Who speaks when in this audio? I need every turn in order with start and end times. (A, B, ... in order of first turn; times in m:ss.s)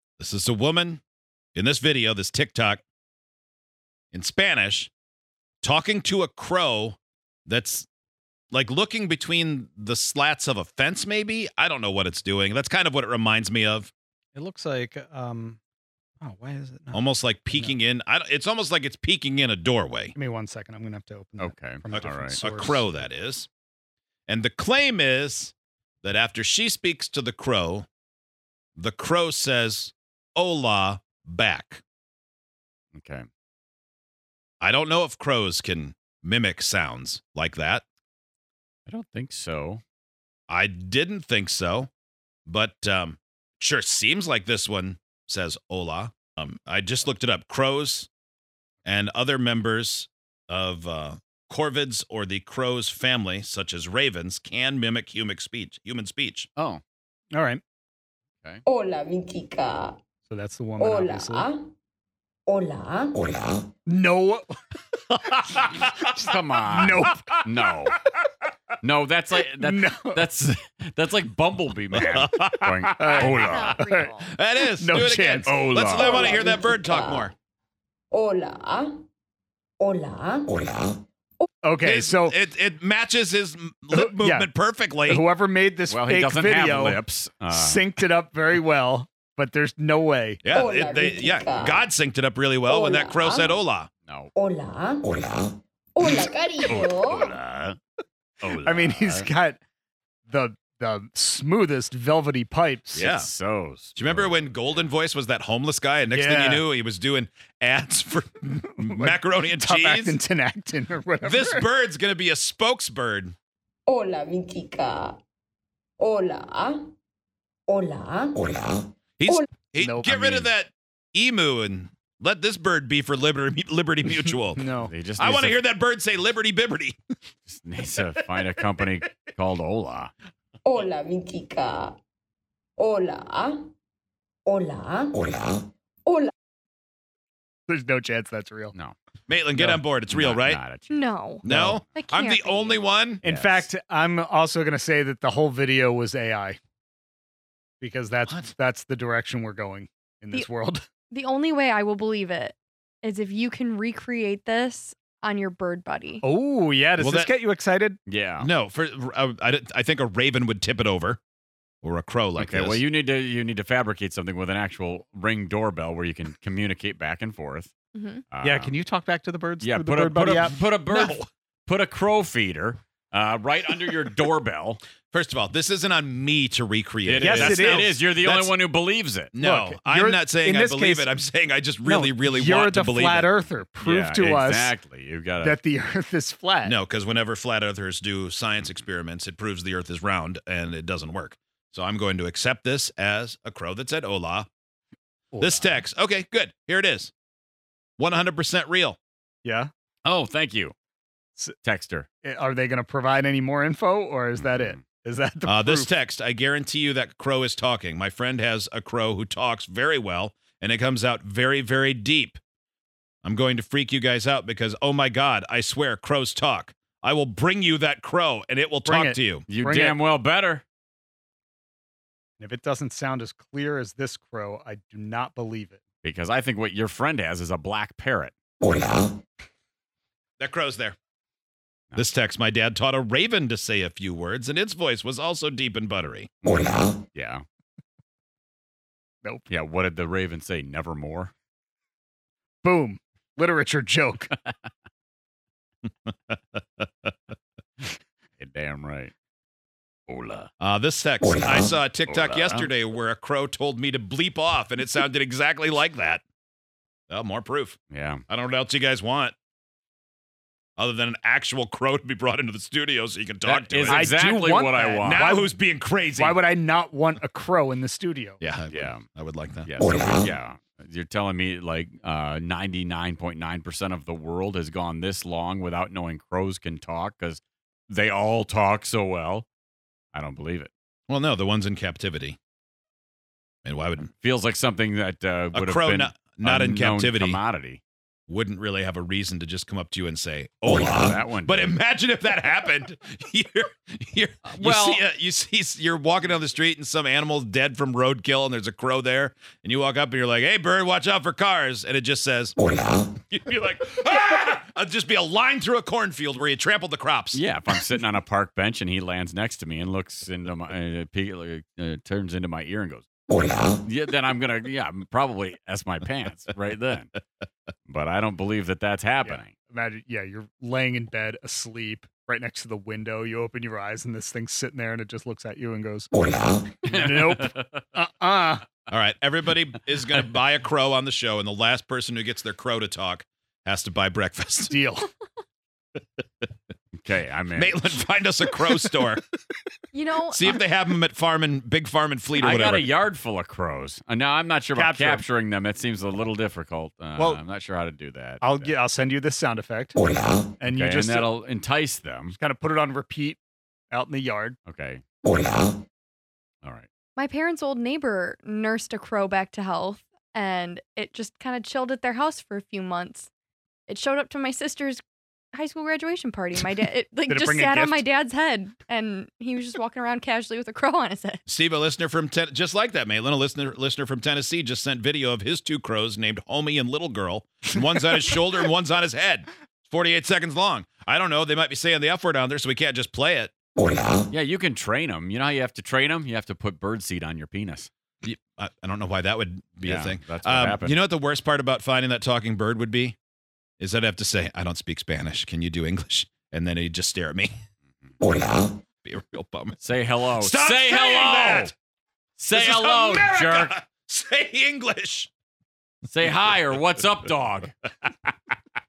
0:00.2-0:01.0 A
0:01.5-0:02.8 A
0:04.1-0:04.9 A
0:05.6-0:07.9 A
0:08.5-0:13.9 A
0:14.3-0:15.6 B
0:16.2-0:17.0 B
0:16.9-0:20.1 A
0:20.1-0:22.8 B
0:21.4-0:22.4 C
0:21.9-0:23.5 A
0:24.3-0:27.9 A
0:28.8-0:31.8 A
0:32.9-0:33.2 C
0:34.6-0:37.8 A
0:38.9-0:39.8 C
0:40.5-0:41.9 A
0:42.5-0:48.1 A
0:48.8-0:56.5 A
0:57.3-0:57.6 B
0:58.7-1:00.0 D
1:00.3-1:01.5 B
1:00.8-1:01.6 D
1:02.5-1:03.2 D
1:03.8-1:04.6 B
1:05.3-1:05.8 B
1:06.0-1:08.0 C
1:06.6-1:08.3 B
1:08.8-1:13.8 C
1:09.6-1:10.3 B
1:11.9-1:17.3 A
1:13.0-1:16.2 B
1:13.0-1:14.3 E
1:15.4-1:16.3 C
1:16.0-1:17.1 D
1:18.1-1:18.9 D
1:19.8-1:20.7 D
1:21.6-1:22.4 B
1:21.8-1:25.2 A
1:23.9-1:24.5 B
1:25.1-1:30.4 B
1:25.9-1:27.9 C
1:30.4-1:33.9 A
1:30.5-1:31.8 D
1:32.7-1:33.4 D
1:34.1-1:34.3 C
1:34.4-1:35.2 D
1:36.0-1:37.3 D
1:36.7-1:37.8 C
1:38.4-1:39.3 C
1:38.5-1:39.6 B
1:40.3-1:43.1 B
1:42.9-1:44.8 C
1:43.0-1:43.3 A
1:44.0-1:50.2 A
1:46.1-1:46.6 B
1:48.8-1:51.6 B
1:51.2-1:53.3 A
1:53.9-1:55.2 D
1:56.0-1:56.9 D
1:57.7-1:58.6 D
1:59.2-2:04.6 A
1:59.8-2:00.5 B
2:04.5-2:04.9 B
2:04.8-2:05.6 C
2:05.2-2:07.0 A
2:07.5-2:10.1 C
2:10.6-2:12.0 D
2:12.8-2:13.6 D
2:14.5-2:15.3 D
2:17.7-2:18.7 B
2:19.3-2:20.6 A
2:19.6-2:20.9 C
2:20.9-2:22.8 E
2:21.4-2:23.2 A
2:21.4-2:21.8 C
2:23.2-2:26.6 B
2:23.2-2:23.7 C
2:27.8-2:30.8 B
2:31.1-2:36.2 E
2:36.2-2:38.0 B
2:37.0-2:37.3 A
2:38.1-2:38.5 C
2:38.4-2:41.2 A
2:41.8-2:42.8 A
2:42.4-2:47.8 C
2:47.9-2:48.2 E
2:48.3-2:48.7 C
2:48.4-2:50.6 B
2:49.6-2:54.8 C
2:50.9-2:51.2 A
2:55.1-2:58.4 A
2:57.0-2:59.3 C
2:57.2-2:58.5 B
2:59.3-3:03.3 A
2:59.4-3:01.1 B
3:01.8-3:04.8 B
3:03.8-3:05.6 C
3:05.4-3:06.8 B
3:06.6-3:14.5 A
3:15.3-3:15.8 B
3:15.4-3:17.1 A
3:18.0-3:19.0 A
3:19.4-3:19.7 B
3:20.0-3:20.7 C
3:21.6-3:22.1 C
3:22.2-3:25.9 B
3:24.4-3:24.8 C
3:25.4-3:32.4 A
3:33.2-3:39.4 A
3:38.8-3:40.0 B
3:39.5-3:40.6 C
3:42.4-3:45.8 B
3:46.0-3:48.3 C
3:50.4-3:51.0 A
3:52.0-3:56.3 A
3:57.1-3:57.4 C
3:59.5-4:01.3 C
4:02.6-4:04.3 B
4:06.1-4:07.1 A
4:08.4-4:09.1 C
4:10.1-4:10.5 C
4:10.6-4:16.2 A
4:12.1-4:12.7 C
4:17.1-4:17.8 A
4:17.9-4:18.2 C
4:18.3-4:19.3 A
4:20.8-4:24.0 A
4:23.4-4:25.3 C
4:23.9-4:25.5 B
4:25.0-4:26.4 A
4:26.1-4:28.4 B
4:28.4-4:29.7 A
4:28.7-4:29.0 C
4:29.6-4:39.4 C
4:40.1-4:40.7 C
4:41.1-4:42.4 A
4:43.6-4:44.1 A
4:44.1-4:47.8 C
4:45.5-4:47.4 A
4:48.3-5:02.6 A
4:50.7-4:51.8 C
4:54.5-4:55.0 C
5:03.3-5:07.4 A
5:07.3-5:13.1 C
5:13.8-5:17.1 C
5:17.9-5:19.5 C
5:19.2-5:26.1 B
5:26.8-5:28.6 B
5:26.8-5:27.7 C
5:28.9-5:34.7 A
5:34.7-5:35.1 B
5:36.9-5:37.8 C
5:37.6-5:39.2 A
5:39.9-5:40.6 E
5:40.3-5:42.9 A
5:42.4-5:48.7 C
5:44.7-5:45.2 B
5:48.4-5:50.0 B
5:50.6-5:51.3 B
5:50.6-5:52.4 C
5:52.4-5:53.4 B
5:53.9-5:54.6 B
5:54.6-5:55.0 C
5:56.6-5:56.9 C
5:57.2-6:03.3 E
6:03.9-6:05.0 E
6:05.5-6:11.4 E
6:07.3-6:08.0 B
6:11.5-6:23.5 A
6:24.3-6:27.9 C
6:28.2-6:33.2 A
6:29.8-6:31.0 C
6:33.8-6:37.5 A
6:39.0-6:41.7 A
6:39.8-6:41.7 C
6:42.4-6:43.8 C
6:42.5-6:45.3 A
6:46.1-6:47.7 C